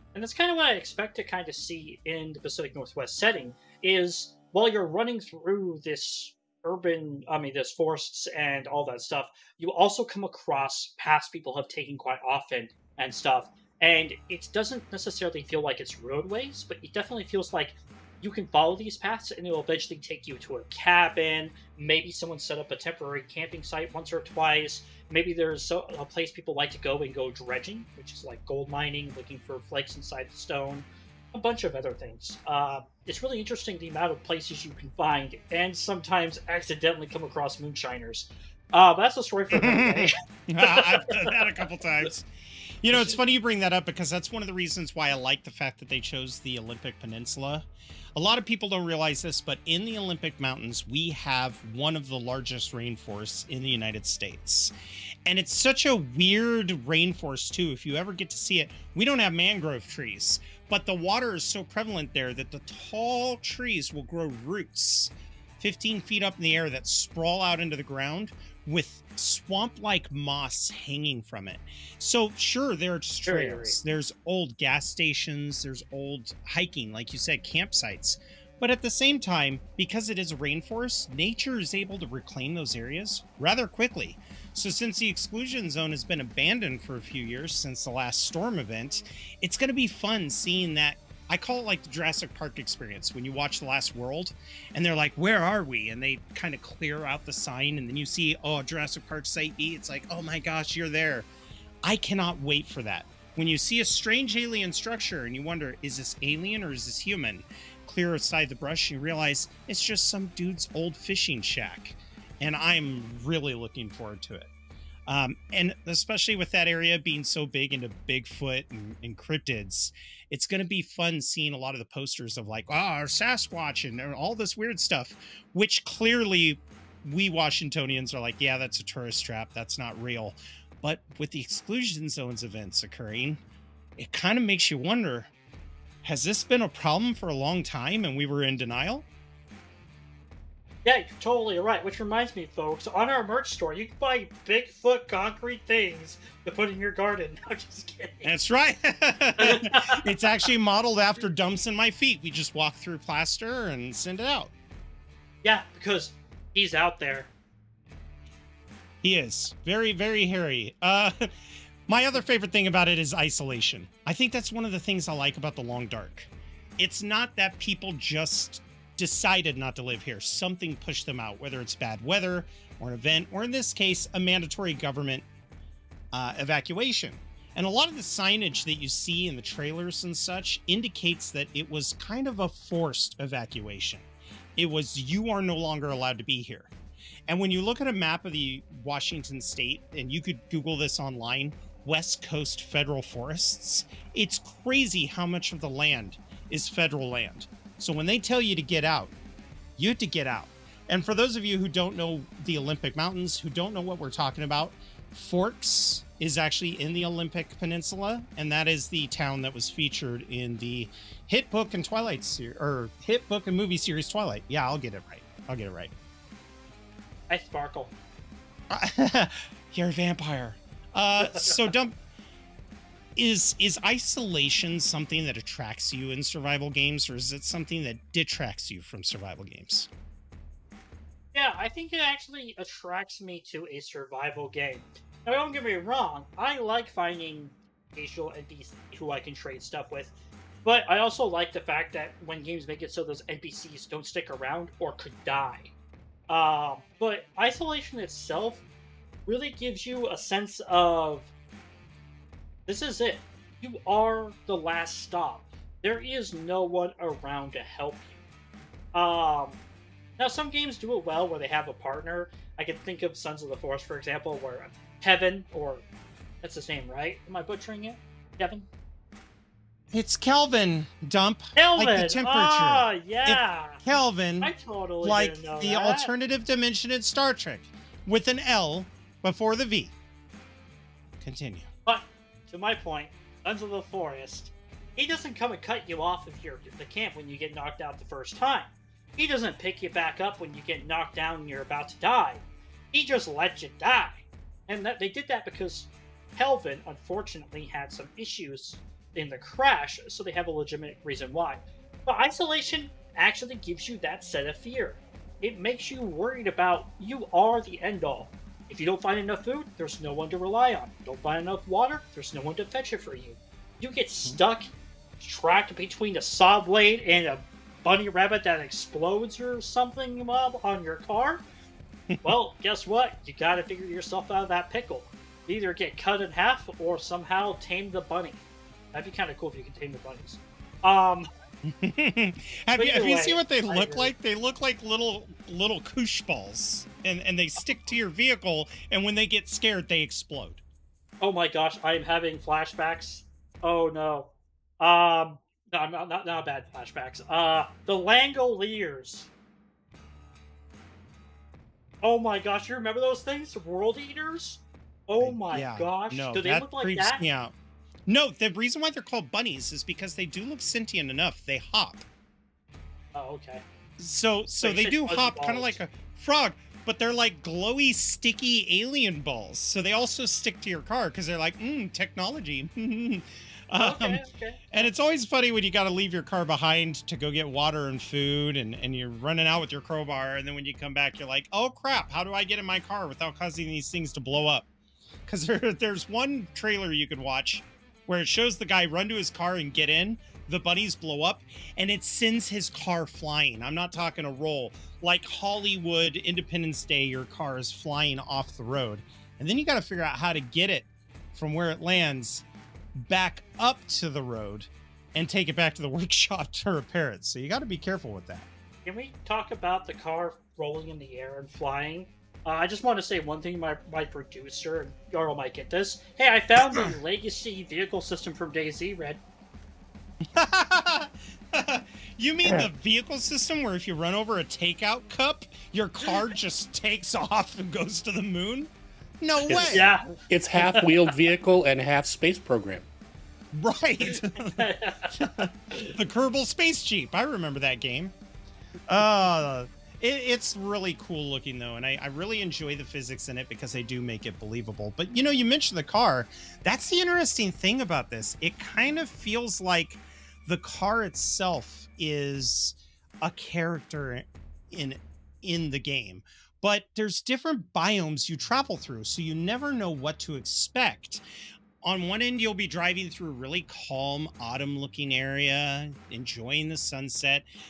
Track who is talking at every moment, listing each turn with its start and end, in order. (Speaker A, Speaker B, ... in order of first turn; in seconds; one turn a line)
Speaker A: 0.1-41.6
Speaker B: 39.5-42.3
Speaker B: 42.8-54.7
Speaker B: 55.2-101.3
Speaker A: 73.2-73.8
Speaker B: 101.8-114.5
Speaker B: 115.1-133.4
Speaker B: 134.0-135.3
Speaker B: 136.0-139.1
Speaker A: 140.8-148.3
Speaker B: 148.2-154.5
Speaker A: 149.4-150.0
Speaker A: 155.4-157.3
Speaker B: 159.0-161.3
Speaker B: 161.9-175.2
Speaker B: 176.1-184.1
Speaker B: 184.6-186.7
Speaker B: 187.3-199.1
Speaker B: 199.8-215.9
Speaker A: 217.3-217.9
Speaker B: 218.7-222.0
Speaker A: 221.2-221.6
Speaker B: 223.2-229.9
Speaker A: 231.3-240.1
Speaker A: 240.7-245.7
Speaker A: 246.3-248.7
Speaker A: 249.3-251.3
Speaker A: 252.7-258.1
Speaker A: 258.9-259.6
Speaker A: 260.2-265.9
Speaker A: 266.4-268.7
Speaker B: 269.9-279.9
Speaker A: 271.6-273.9
Speaker A: 274.4-276.1
Speaker B: 281.2-281.7
Speaker A: 281.9-321.4
Speaker A: 322.2-331.3
Speaker B: 331.7-340.6
Speaker A: 332.8-334.1
Speaker A: 341.2-349.3
Speaker A: 352.0-357.2
Speaker B: 355.2-357.5
Speaker B: 358.1-362.1
Speaker A: 363.1-363.6
Speaker B: 364.0-384.7
Speaker A: 364.6-365.8
Speaker A: 373.8-374.9
Speaker B: 385.3-402.4
Speaker B: 403.0-408.5
Speaker A: 408.9-419.2
Speaker B: 420.3-428.7
Speaker C: 422.4-422.7
Speaker B: 429.2-429.9
Speaker C: 429.5-432.9
Speaker A: 429.5-430.9
Speaker B: 433.5-438.1
Speaker A: 434.5-435.9
Speaker B: 438.9-461.2
Speaker B: 461.8-467.5